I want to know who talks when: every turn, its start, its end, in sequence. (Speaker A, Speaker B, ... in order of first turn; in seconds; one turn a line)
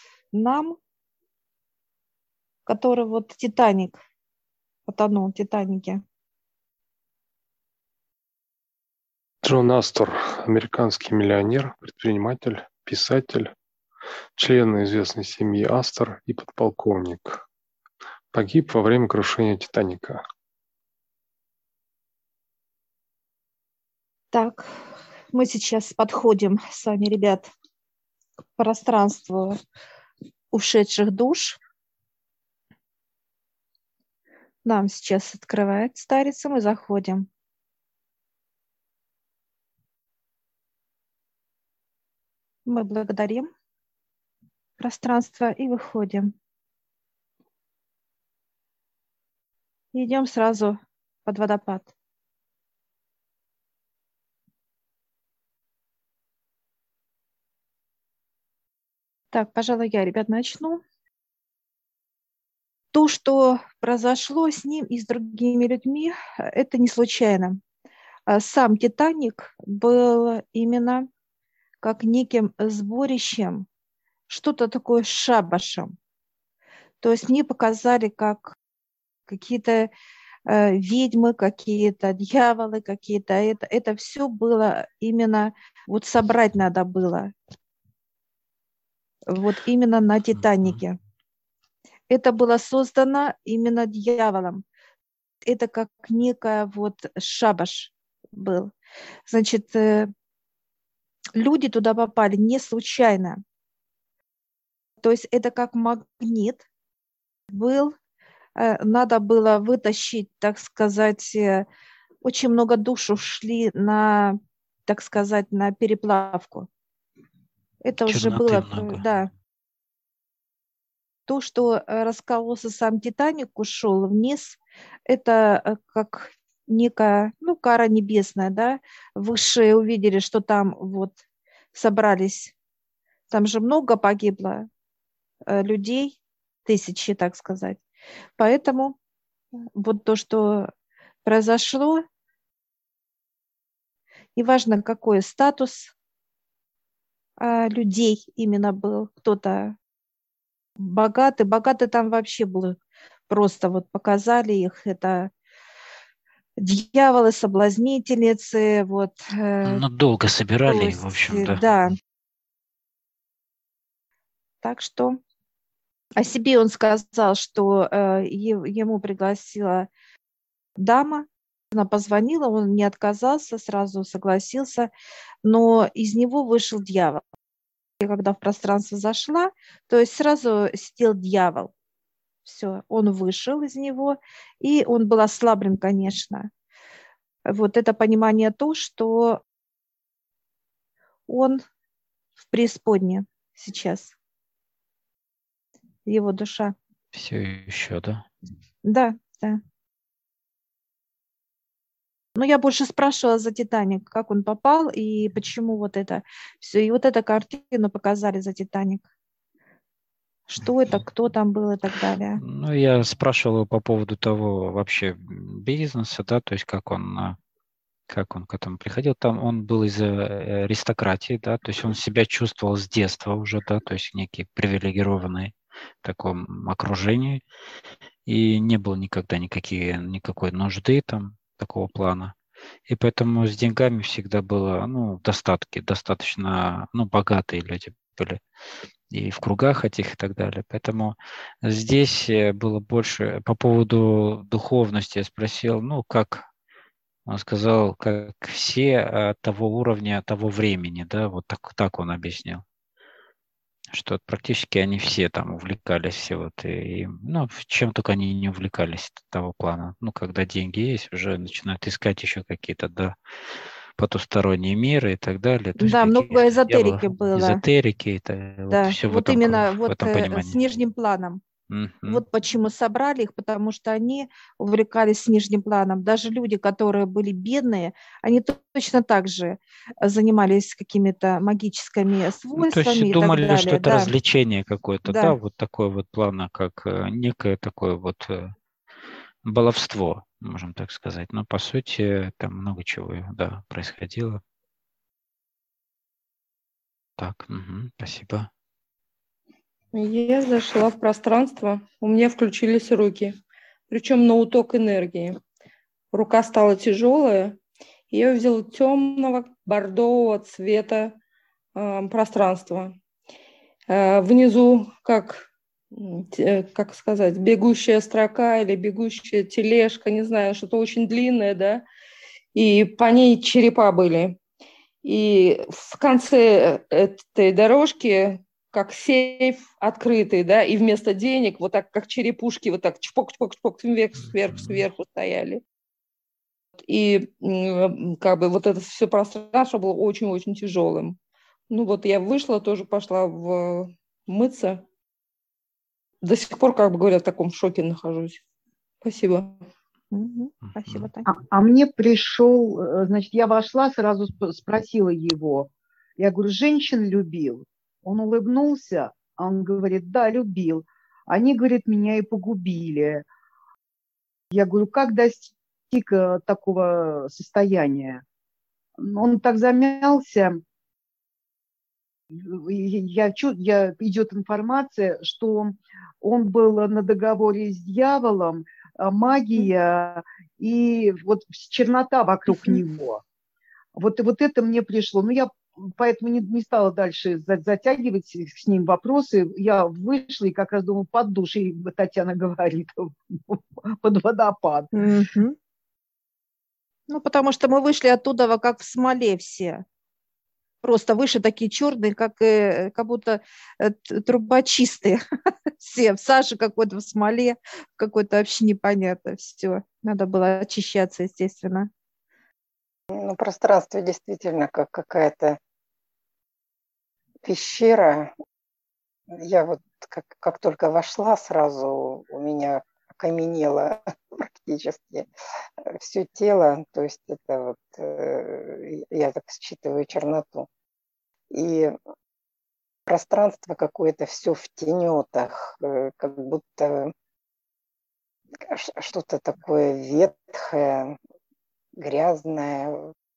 Speaker A: 0.3-0.8
Speaker A: 2.6-4.0
Speaker A: 4.9-6.0
Speaker B: 9.4-13.5
Speaker B: 14.3-17.4
Speaker B: 18.3-20.2
Speaker A: 24.3-27.5
Speaker A: 28.6-29.6
Speaker A: 30.5-31.6
Speaker A: 34.6-37.3
Speaker A: 42.6-43.5
Speaker A: 44.8-46.3
Speaker A: 49.9-51.9
Speaker A: 59.3-60.8
Speaker A: 62.9-67.6
Speaker A: 68.3-71.1
Speaker A: 71.8-73.7
Speaker A: 74.3-75.9
Speaker A: 77.0-78.5
Speaker A: 79.3-79.9
Speaker A: 80.5-87.3
Speaker A: 89.3-91.0
Speaker C: 90.3-90.8
Speaker A: 92.1-94.6
Speaker A: 95.5-98.7
Speaker A: 99.3-100.1
Speaker A: 101.3-103.4
Speaker A: 105.0-106.6
Speaker A: 107.5-107.9
Speaker A: 108.6-111.7
Speaker A: 112.2-116.7
Speaker A: 117.8-119.3
Speaker C: 118.0-119.0
Speaker A: 121.3-131.2
Speaker A: 131.7-132.5
Speaker A: 133.3-134.7
Speaker A: 135.5-137.8
Speaker A: 138.4-138.9
Speaker A: 139.7-140.7
Speaker A: 141.2-142.0
Speaker A: 144.3-145.9
Speaker A: 147.4-149.8
Speaker A: 150.8-152.8
Speaker A: 153.3-155.3
Speaker A: 156.6-159.8
Speaker C: 159.6-161.6
Speaker A: 160.7-161.9
Speaker A: 164.6-165.2
Speaker A: 166.2-169.9
Speaker A: 170.8-174.9
Speaker A: 175.4-177.2
Speaker A: 178.0-181.7
Speaker A: 182.4-186.5
Speaker A: 187.5-189.4
Speaker A: 191.3-191.6
Speaker A: 192.4-194.1
Speaker A: 196.1-196.7
Speaker C: 197.1-198.2
Speaker A: 198.8-199.6
Speaker A: 202.3-209.0
Speaker A: 210.5-212.4
Speaker C: 212.4-217.4
Speaker C: 218.1-227.4
Speaker C: 228.2-232.3
Speaker C: 232.9-238.4
Speaker C: 239.1-246.4
Speaker C: 247.3-252.6
Speaker C: 253.9-263.1
Speaker C: 264.0-270.6
Speaker A: 265.8-267.6
Speaker A: 268.7-271.4
Speaker C: 271.7-272.2
Speaker A: 272.1-284.1
Speaker C: 282.6-288.5
Speaker A: 285.0-285.4
Speaker C: 289.4-294.4
Speaker C: 297.2-298.5
Speaker D: 299.9-303.4
Speaker D: 303.9-305.4
Speaker D: 306.1-307.6
Speaker D: 308.1-311.2
Speaker D: 311.8-313.0
Speaker D: 313.9-321.8
Speaker D: 322.5-324.4
Speaker D: 325.0-335.6
Speaker C: 334.5-334.8
Speaker D: 336.9-341.2
Speaker D: 341.7-344.8
Speaker D: 346.2-348.4
Speaker D: 349.0-349.6
Speaker A: 350.1-351.2
Speaker C: 350.6-351.1
Speaker E: 351.2-363.2
Speaker E: 364.5-368.2
Speaker E: 369.0-370.6
Speaker E: 372.3-383.2
Speaker E: 383.9-394.9
Speaker A: 395.0-395.5
Speaker A: 397.1-399.8
Speaker A: 400.8-405.2
Speaker A: 405.8-411.9
Speaker F: 413.1-415.6
Speaker F: 417.4-418.3
Speaker F: 419.4-425.3
Speaker F: 425.9-430.7
Speaker F: 431.5-431.9
Speaker F: 433.1-437.1
Speaker F: 438.6-441.1
Speaker F: 442.0-443.0